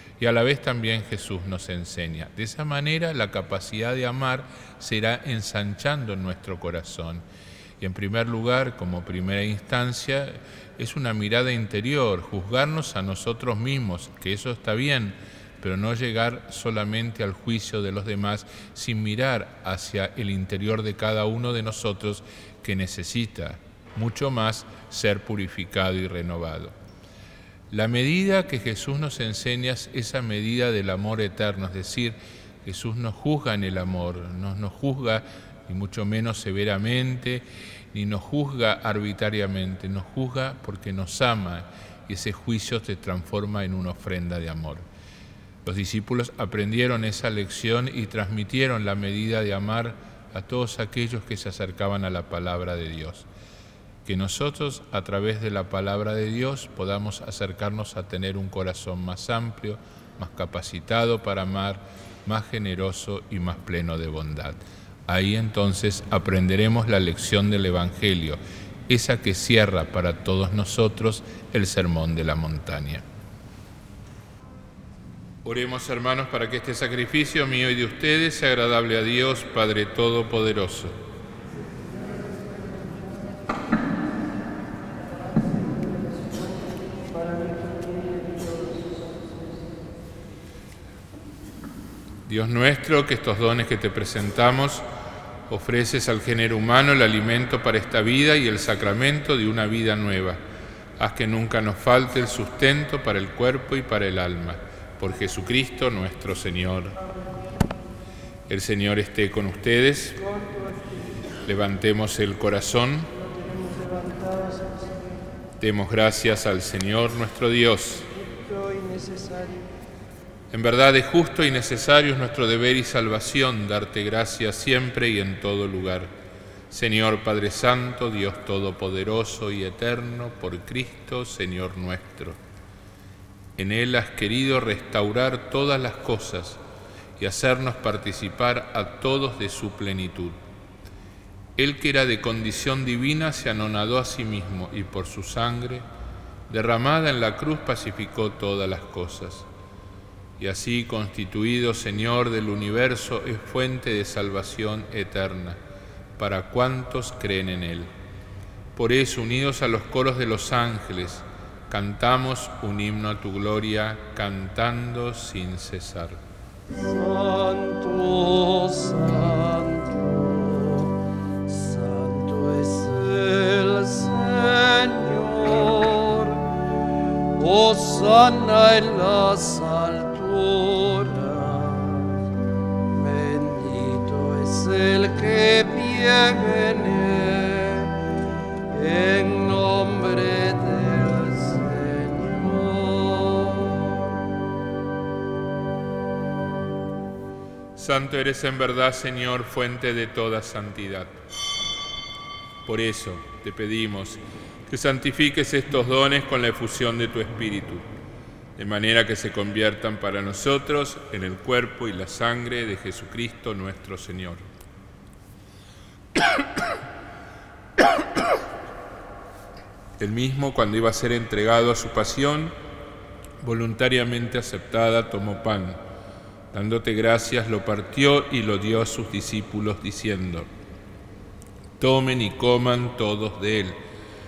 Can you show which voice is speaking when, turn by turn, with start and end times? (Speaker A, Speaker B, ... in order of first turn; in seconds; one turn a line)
Speaker A: 0.2-7.2
Speaker A: 7.8-26.7
Speaker A: 27.7-44.8
Speaker A: 45.6-53.3
Speaker A: 54.0-73.0
Speaker A: 75.4-81.0
Speaker B: 87.1-89.3
Speaker A: 92.2-94.8
Speaker A: 95.5-100.4
Speaker A: 101.0-107.0
Speaker A: 108.5-110.2
Speaker B: 110.4-110.9
Speaker A: 111.4-113.1
Speaker B: 113.3-115.1
Speaker A: 115.6-118.1
Speaker B: 118.1-119.7
Speaker A: 120.5-126.1
Speaker A: 126.7-132.4
Speaker A: 133.6-136.6
Speaker A: 137.2-140.4
Speaker A: 141.6-145.8
Speaker A: 146.5-149.5
Speaker A: 150.4-155.6
Speaker A: 156.2-157.9
Speaker A: 158.8-166.2
Speaker B: 166.7-176.5
Speaker B: 177.3-182.2
Speaker B: 182.9-188.0
Speaker B: 188.7-194.2
Speaker A: 197.8-201.2
Speaker A: 202.6-207.8
Speaker A: 208.6-214.4
Speaker A: 220.0-222.5
Speaker A: 223.4-225.8
Speaker A: 226.5-230.5
Speaker A: 231.8-233.8